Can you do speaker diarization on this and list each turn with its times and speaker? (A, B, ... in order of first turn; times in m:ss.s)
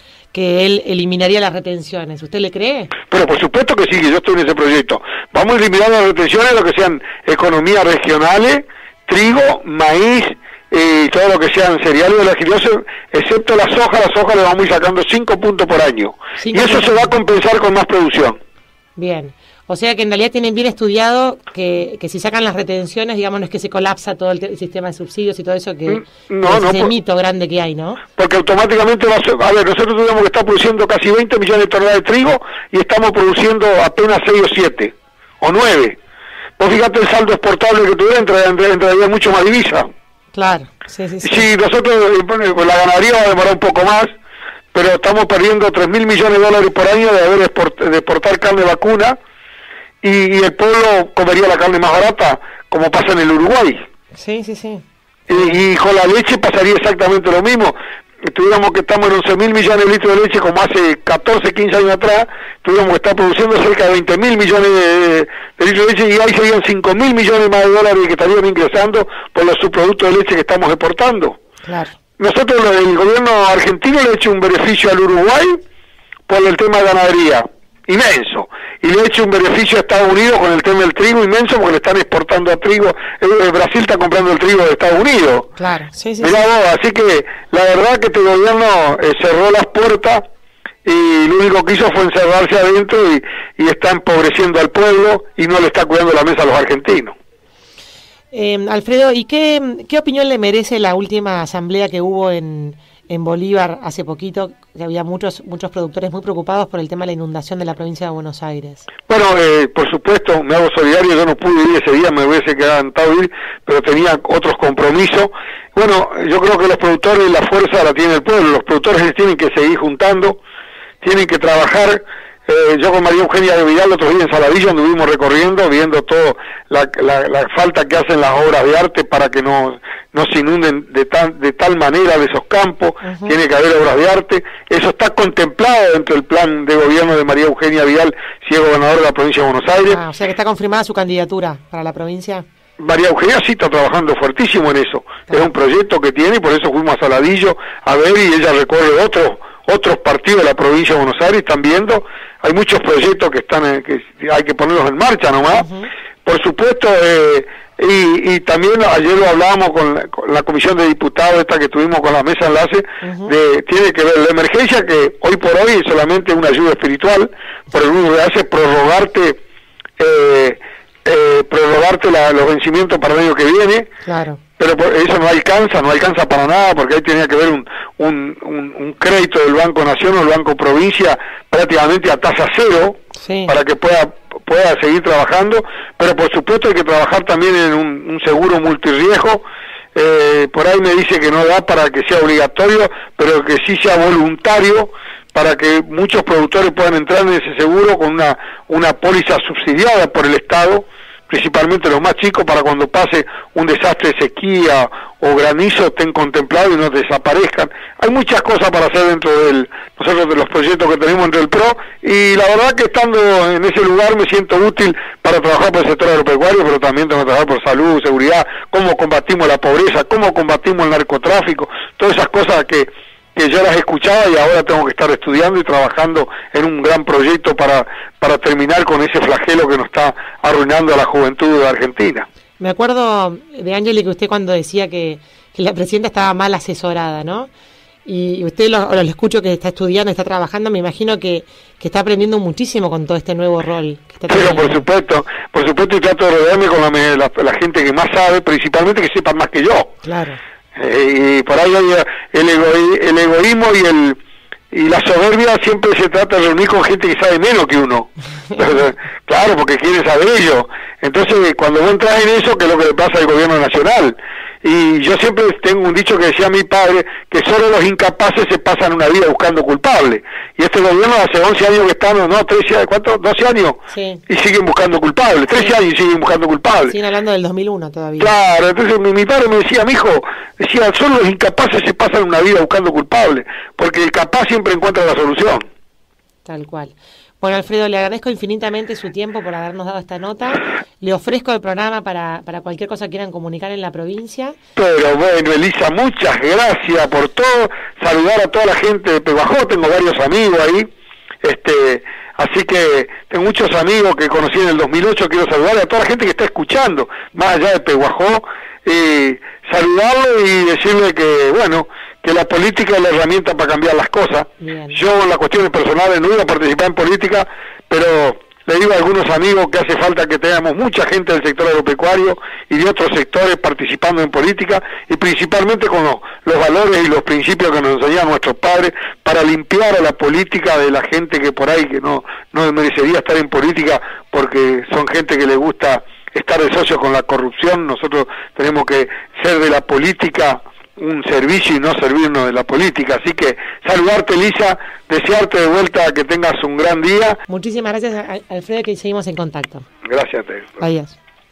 0:00.3-0:02.9 A
0:03.1-0:18.4 B
0:16.4-0:17.1 A
0:19.0-0:28.0 A
0:25.9-0:26.9 B
0:28.2-0:36.0 B
0:36.6-0:39.9 B
0:40.3-0:41.4 A
0:41.2-0:44.1 B
0:44.7-0:49.2 B
0:50.0-0:53.8 B
0:54.1-0:55.6 A
0:55.3-0:57.8 B
0:58.3-1:11.4 B
1:11.6-1:11.9 A
1:12.2-1:15.6 B
1:16.3-1:25.5 B
1:25.6-1:26.4 A
1:26.2-1:30.2 B
1:30.8-1:37.2 B
1:38.3-1:48.9 A
1:49.1-2:00.4 B
2:01.0-2:20.0 B
2:13.0-2:13.4 A
2:19.9-2:22.4 A
2:22.8-2:35.7 B
2:35.5-2:35.9 A
2:36.2-2:49.4 B
2:43.0-2:43.3 A
2:50.0-2:53.9 B
2:54.0-2:54.4 A
2:54.6-3:09.4 B
3:03.2-3:03.5 A
3:09.9-3:52.3 B
3:52.6-3:57.5 A
3:58.0-4:04.8 A
4:04.3-4:09.9 B
4:10.0-4:10.4 A
4:10.8-4:14.2 B
4:14.7-4:37.0 B
4:33.9-4:34.2 A
4:36.9-4:38.3 A
4:38.2-4:45.6 B
4:46.4-4:54.6 A
4:54.8-5:00.9 B
5:01.4-5:47.4 B
5:14.6-5:15.0 A
5:47.5-5:49.8 A
5:50.0-5:50.8 B
5:50.8-5:51.2 A